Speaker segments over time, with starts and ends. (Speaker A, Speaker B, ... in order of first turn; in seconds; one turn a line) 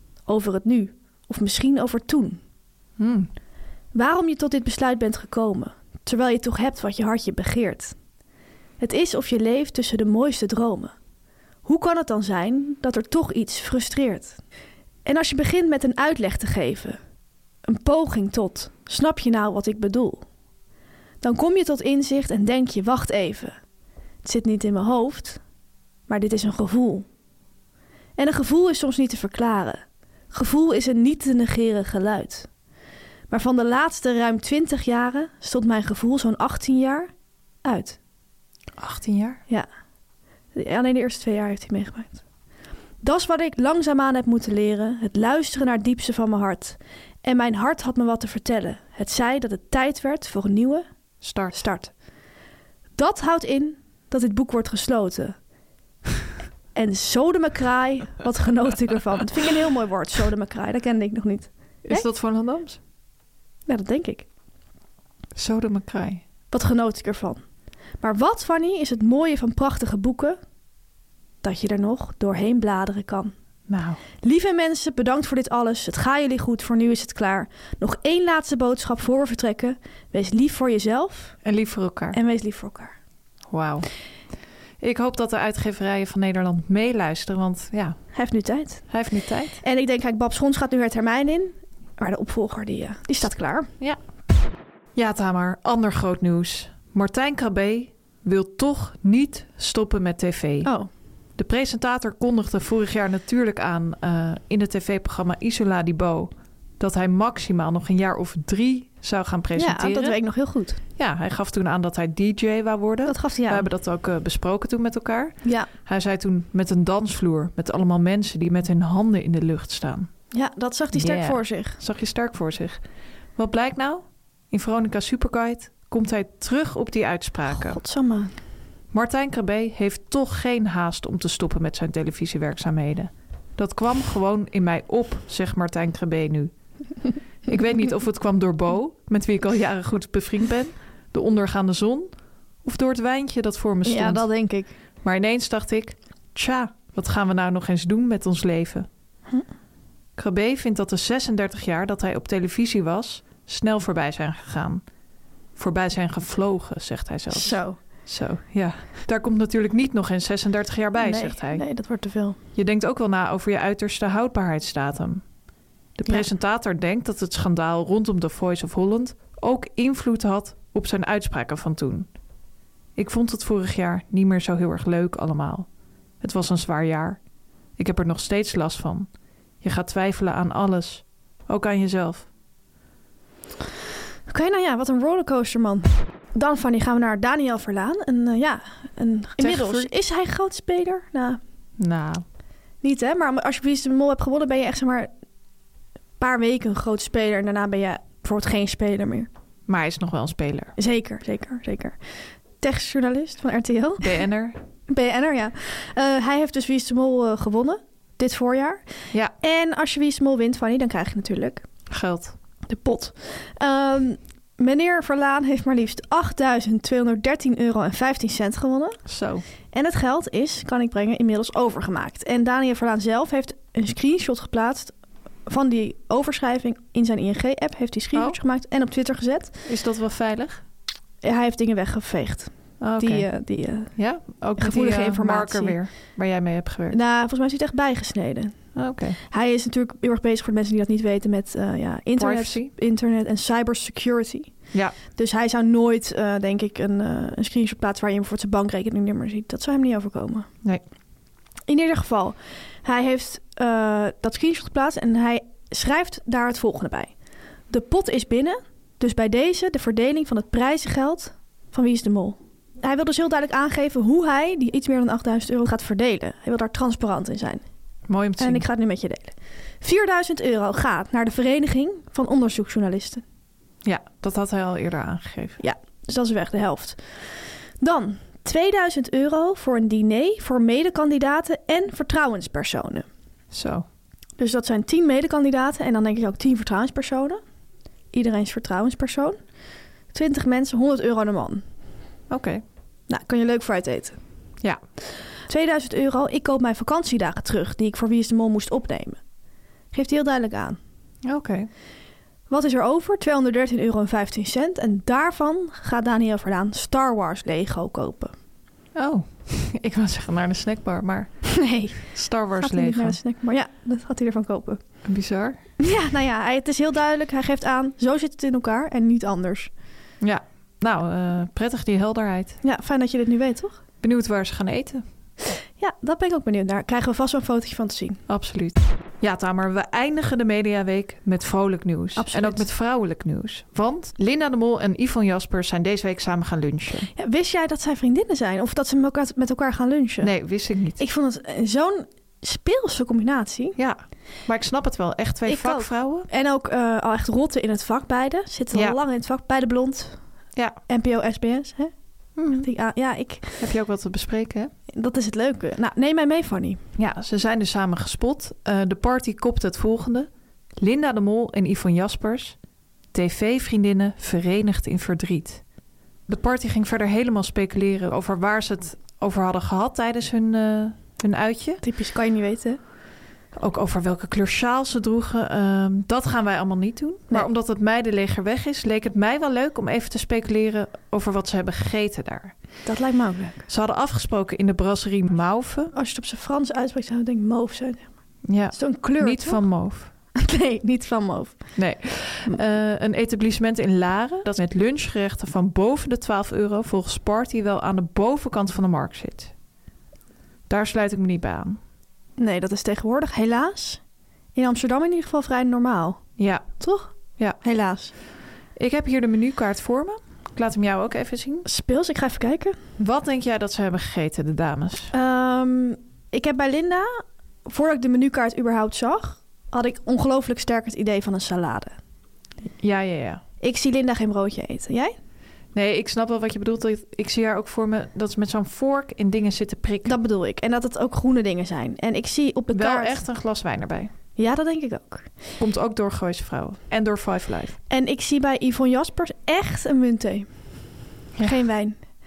Speaker A: 0.3-2.4
Speaker B: 3.0-3.3
Speaker A: 3.9-7.9
Speaker A: 8.8-10.9
Speaker A: 11.6-14.4
Speaker A: 15.0-17.0
Speaker A: 17.7-20.2
Speaker A: 21.2-23.6
Speaker A: 24.2-25.4
Speaker A: 26.1-27.1
Speaker A: 28.2-32.5
Speaker A: 33.3-37.1
Speaker A: 37.6-38.0
Speaker B: 38.8-39.4
Speaker A: 40.5-42.2
Speaker A: 43.0-50.9
Speaker B: 51.2-51.6
Speaker A: 51.5-51.9
Speaker A: 53.0-55.4
Speaker A: 56.7-62.0
Speaker B: 61.9-62.8
Speaker A: 63.7-64.2
Speaker B: 65.3-66.2
Speaker A: 66.5-67.4
Speaker A: 68.0-70.4
Speaker A: 71.4-73.3
Speaker B: 73.7-74.0
Speaker A: 74.2-81.3
Speaker B: 81.4-82.2
Speaker A: 82.1-82.9
Speaker B: 83.5-83.9
Speaker B: 84.8-88.0
Speaker A: 88.1-88.9
Speaker B: 88.9-89.6
Speaker A: 89.6-93.7
Speaker B: 94.9-100.7
Speaker B: 101.4-110.2
Speaker A: 109.5-110.8
Speaker B: 111.0-120.1
Speaker A: 113.1-113.7
Speaker A: 115.4-115.7
Speaker A: 120.3-121.8
Speaker B: 120.9-122.8
Speaker B: 123.3-127.8
Speaker A: 127.5-128.3
Speaker B: 128.9-136.5
Speaker B: 137.5-142.1
Speaker B: 142.6-144.3
Speaker A: 143.8-144.7
Speaker B: 145.0-148.9
Speaker B: 150.2-154.8
Speaker B: 155.6-161.6
Speaker A: 157.3-157.8
Speaker A: 161.0-162.4
Speaker B: 162.5-165.2
Speaker B: 166.0-172.1
Speaker B: 172.9-175.7
Speaker B: 176.2-177.2
Speaker B: 177.8-179.1
Speaker B: 179.6-182.3
Speaker A: 184.3-191.4
Speaker B: 189.4-189.9
Speaker B: 191.8-192.2
Speaker A: 192.8-195.1
Speaker A: 196.2-199.3
Speaker B: 199.7-200.7
Speaker A: 200.8-202.0
Speaker A: 202.6-204.2
Speaker B: 204.0-204.6
Speaker A: 204.9-208.8
Speaker A: 209.4-211.6
Speaker B: 211.9-212.3
Speaker A: 212.7-219.0
Speaker B: 219.1-219.4
Speaker A: 219.7-224.9
Speaker A: 225.5-229.5
Speaker B: 228.1-228.4
Speaker B: 229.7-230.6
Speaker A: 231.2-233.9
Speaker B: 232.8-233.3
Speaker B: 233.9-237.0
Speaker A: 234.6-235.8
Speaker A: 236.9-238.6
Speaker B: 238.8-239.2
Speaker A: 239.3-244.5
Speaker B: 242.2-242.7
Speaker A: 245.1-250.5
Speaker A: 251.7-257.1
Speaker A: 257.7-267.6
Speaker B: 268.1-268.6
Speaker A: 268.4-273.2
Speaker B: 273.8-275.6
Speaker A: 275.6-277.2
Speaker A: 277.8-283.1
Speaker B: 283.5-283.8
Speaker A: 284.4-287.4
Speaker A: 288.1-289.4
Speaker A: 290.1-291.6
Speaker B: 292.3-292.6
Speaker A: 293.1-294.2
Speaker A: 295.5-299.2
Speaker A: 299.9-300.8
Speaker B: 301.2-301.7
Speaker A: 302.5-308.3
Speaker B: 308.9-311.5
Speaker A: 311.5-314.8
Speaker B: 312.0-313.2
Speaker B: 315.0-315.6
Speaker A: 315.8-319.7
Speaker B: 320.2-322.6
Speaker A: 322.6-323.8
Speaker B: 324.0-325.0
Speaker A: 325.8-328.2
Speaker B: 328.3-337.1
Speaker A: 332.2-332.6
Speaker A: 337.2-340.3
Speaker B: 340.2-341.0
Speaker A: 341.0-343.8
Speaker B: 343.8-346.3
Speaker A: 345.4-350.2
Speaker A: 350.9-351.9
Speaker B: 352.4-352.7
Speaker A: 352.5-353.6
Speaker B: 353.6-354.7
Speaker A: 354.9-356.8
Speaker B: 357.0-362.6
Speaker B: 363.1-365.6
Speaker B: 366.3-371.8
Speaker A: 371.8-372.8
Speaker B: 373.6-382.5
Speaker A: 382.8-383.6
Speaker B: 383.7-385.9
Speaker A: 385.9-388.1
Speaker B: 388.4-390.1
Speaker A: 388.7-389.7
Speaker A: 390.3-391.8
Speaker B: 391.8-399.5
Speaker B: 400.7-401.8
Speaker A: 402.4-404.0
Speaker A: 404.5-406.2
Speaker B: 406.4-406.7
Speaker A: 406.8-408.1
Speaker B: 408.8-411.6
Speaker A: 411.6-412.8
Speaker B: 413.0-415.1
Speaker A: 415.1-421.9
Speaker B: 422.8-423.4
Speaker A: 423.6-425.1
Speaker B: 425.7-430.1
Speaker A: 430.0-433.2
Speaker B: 432.7-434.1
Speaker A: 434.4-435.3
Speaker B: 435.6-437.8
Speaker A: 437.9-440.5
Speaker B: 441.4-441.6
Speaker A: 441.4-442.0